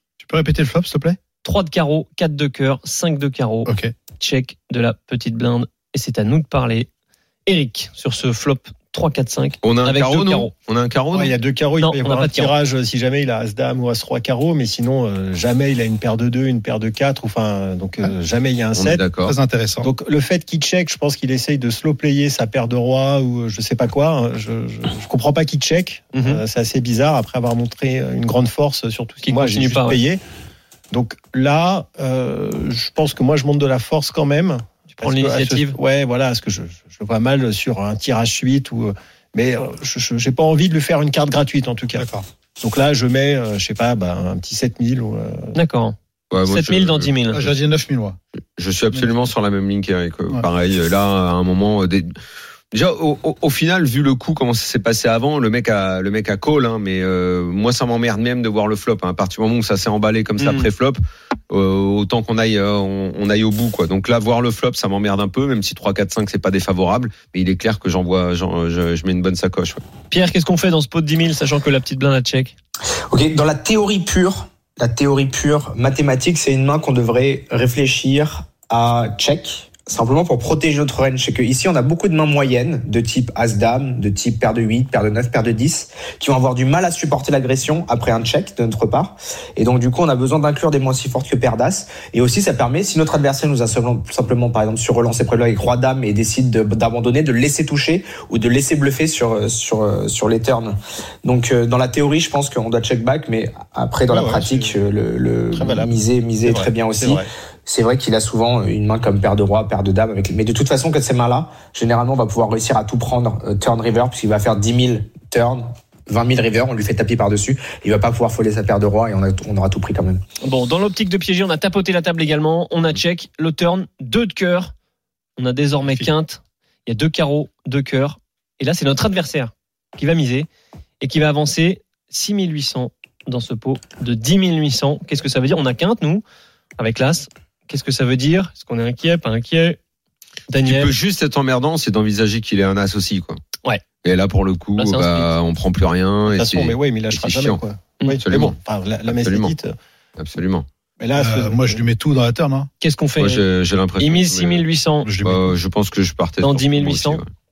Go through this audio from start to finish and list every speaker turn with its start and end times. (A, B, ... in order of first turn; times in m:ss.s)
0:00.2-0:01.2 A
0:01.4-0:06.9 B
0:03.6-0:03.9 A
0:07.4-0:10.5 B
0:09.6-0:11.3 C
0:11.1-0:19.0 D
0:11.8-0:12.5 B
0:18.7-0:19.4 C
0:19.2-0:19.9 A
0:19.8-0:30.2 D
0:26.1-0:26.4 B
0:29.2-0:30.0 B
0:30.9-0:42.1 D
0:35.0-0:35.8 B
0:42.0-0:42.2 A
0:42.6-0:45.6 D
0:45.5-0:47.5 B
0:46.3-0:47.1 C
0:47.3-0:48.2 A
0:48.6-0:52.1 C
0:52.7-1:01.0 C
1:00.4-1:00.7 B
1:01.5-1:09.8 C
1:10.1-1:12.5 B
1:13.1-2:00.2 E
1:44.1-1:44.8 D
1:45.5-1:47.3 D
2:00.4-2:04.7 B
2:05.4-2:10.5 B
2:11.0-2:16.2 B
2:16.8-2:19.8 B
2:20.5-2:20.9 B
2:20.6-2:23.4 C
2:24.0-2:27.6 C
2:24.8-2:25.3 B
2:26.3-2:29.8 D
2:28.2-2:28.6 C
2:29.1-2:29.5 C
2:30.2-2:30.6 C
2:31.0-2:31.8 D
2:31.2-2:32.7 A
2:32.8-2:33.4 B
2:33.2-2:34.6 C
2:34.0-2:35.1 B
2:35.0-2:35.5 A
2:35.2-2:37.3 C
2:36.4-2:37.2 B